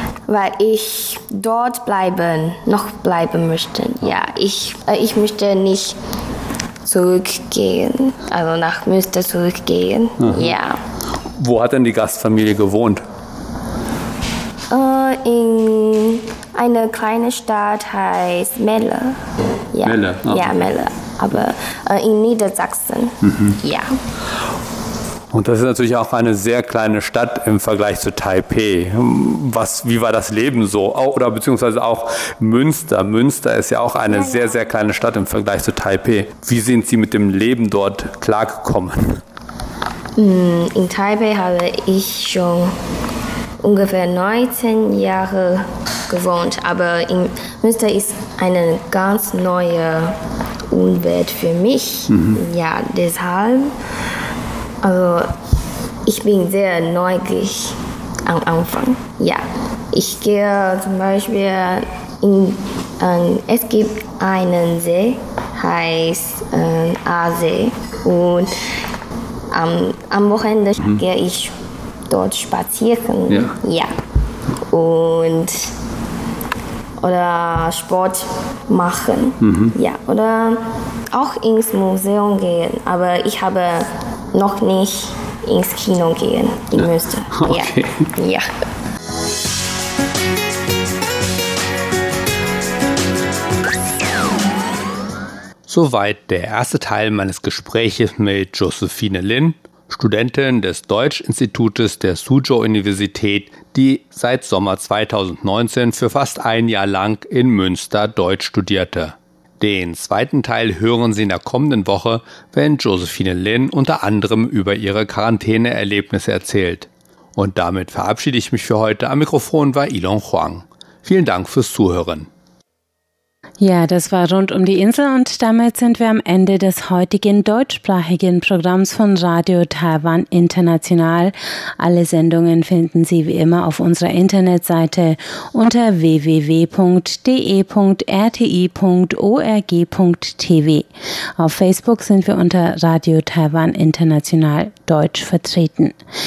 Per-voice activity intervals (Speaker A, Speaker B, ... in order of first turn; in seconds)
Speaker A: 0.3-6.0, 6.8-10.8, 14.7-19.2, 19.7-24.0, 34.1-34.6, 40.2-42.7, 43.6-50.2, 50.7-53.7, 54.8-55.4, 56.0-68.5, 69.5-74.0, 74.7-75.7, 77.0-88.5
Speaker B: 10.2-10.6, 11.4-13.0, 19.8-20.6, 23.3-23.6, 25.3-39.2, 52.1-52.4, 73.3-73.5, 79.4-79.7, 86.8-88.0, 95.7-122.3
Speaker C: 123.6-140.9, 141.4-146.0